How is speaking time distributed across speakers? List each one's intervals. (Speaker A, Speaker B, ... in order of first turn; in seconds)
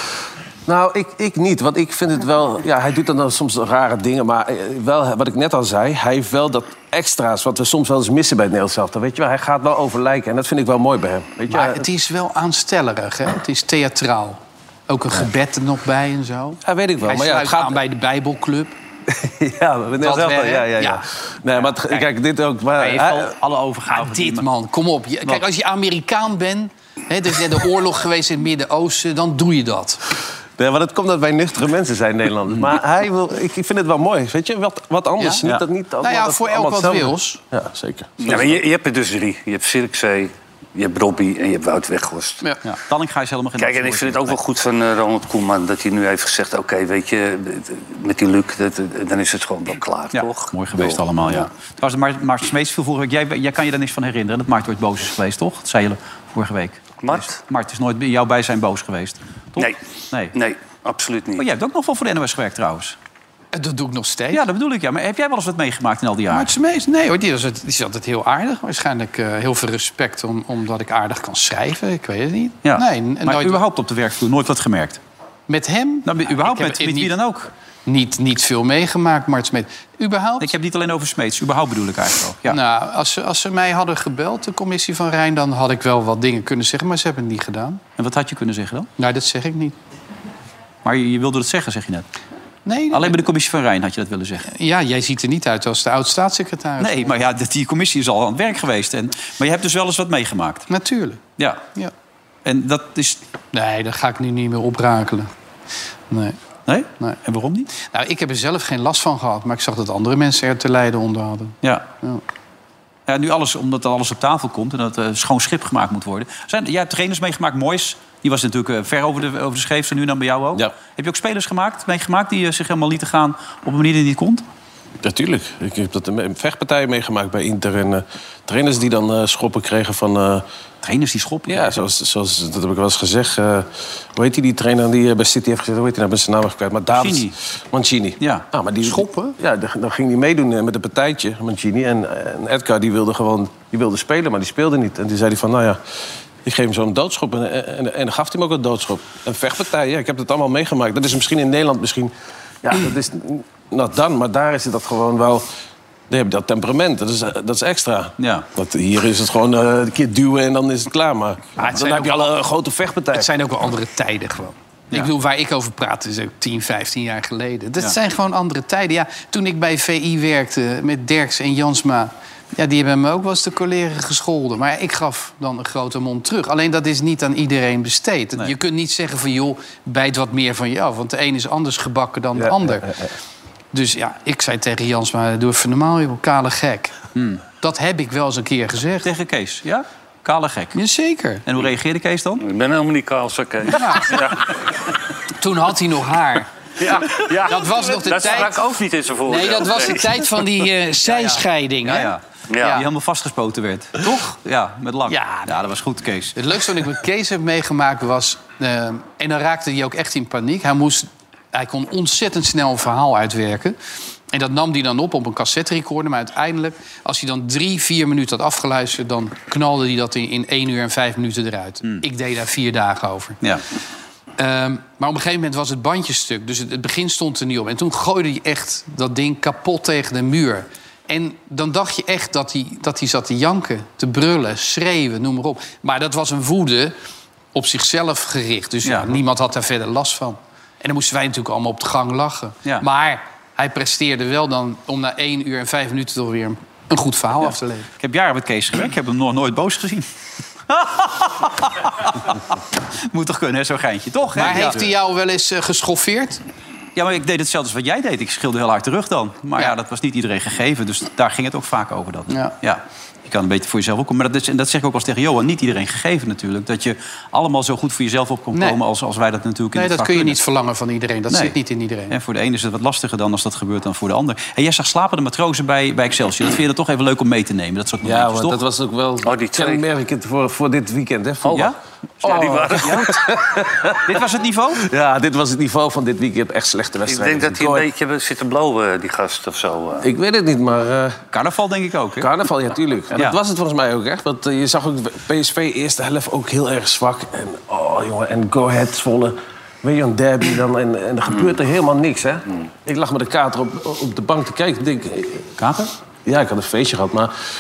Speaker A: 0.7-11.8, 16.6-17.8, 19.1-23.3, 30.6-38.6, 125.0-130.4, 131.5-145.8, 146.4-152.1, 152.6-155.5, 156.1-163.3, 182.4-183.1, 278.0-281.7, 282.2-284.2, 284.8-287.9, 290.0-291.2, 292.2-305.5, 306.3-307.3
Speaker B: 11.5-18.7, 20.0-21.0, 23.9-30.0, 35.2-35.5, 36.0-37.4, 63.5-64.4, 66.3-73.6, 75.5-77.1, 77.9-80.5, 82.5-87.8, 89.0-89.8, 92.7-93.2, 94.5-97.3, 100.7-101.2, 103.5-105.3, 106.1-106.4, 107.8-112.2, 138.8-139.4, 161.6-162.3, 163.1-182.9, 183.7-186.9, 187.6-189.1, 190.8-191.4, 193.7-194.2, 195.4-196.5, 197.5-198.7, 199.3-202.8, 205.1-205.5, 206.4-213.8, 214.3-223.4, 224.4-236.9, 237.6-247.9, 254.3-256.4, 268.5-268.8, 269.8-272.1
Speaker C: 22.8-24.4, 42.6-44.4, 50.1-60.4, 61.4-63.0, 64.3-66.5, 72.7-75.0, 76.1-77.5, 80.4-82.6, 88.0-88.9, 90.8-92.1, 92.9-94.5, 96.8-100.7, 102.5-103.2, 106.7-107.7, 113.1-124.4, 130.8-131.8, 136.9-137.4, 138.2-138.5, 158.2-158.5, 187.2-187.4, 189.0-190.8, 191.5-192.4, 201.1-206.4, 238.9-239.2, 248.0-250.1, 250.7-252.6, 253.1-254.8, 256.9-270.4, 272.1-278.6, 281.5-283.1, 284.1-284.8, 291.3-292.3, 305.6-305.9
Speaker D: 38.2-42.4, 43.6-51.5, 57.0-57.4, 60.3-61.5, 192.4-194.5, 196.8-200.2, 202.5-202.8, 279.2-279.9, 281.4-281.7, 282.2-283.3, 287.1-290.1